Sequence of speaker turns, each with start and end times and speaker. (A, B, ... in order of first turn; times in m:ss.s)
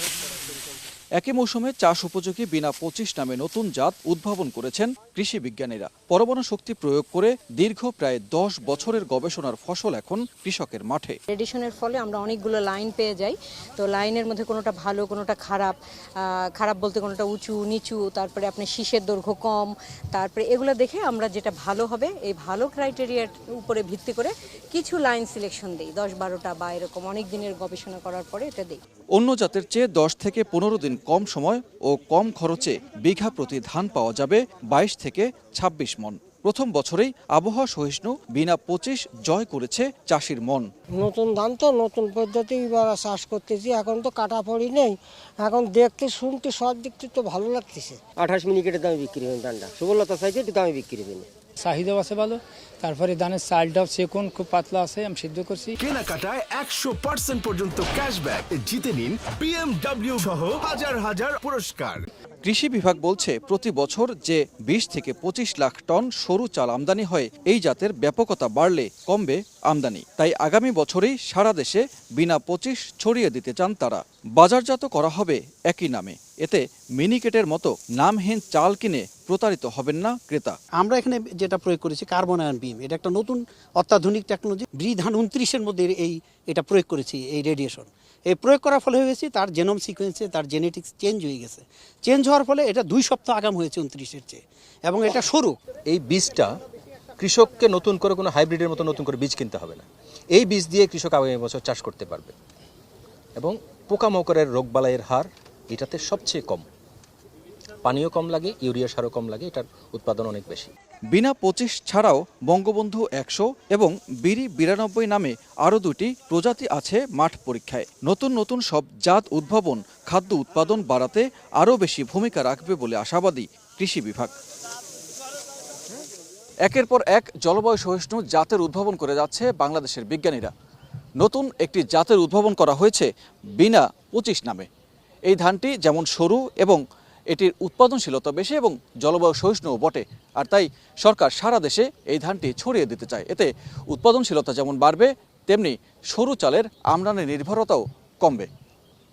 0:01.2-0:11.2 A
0:11.3-0:28.8 B
0:29.2-0:40.6 A
0:40.9-0:48.0 C
0:48.2-0:51.3 D
0:51.6-0:55.7 E
0:55.8-1:02.0 F
1:02.4-1:20.6 A
1:20.8-1:35.6 G
1:35.9-1:36.5 H
1:37.2-1:42.3 H
1:43.4-1:46.6 H
1:47.8-1:50.7 H
1:51.1-2:04.3 A
2:06.7-2:10.5 A
2:11.2-2:13.1 A
2:13.6-2:14.7 A
2:15.3-2:28.5 A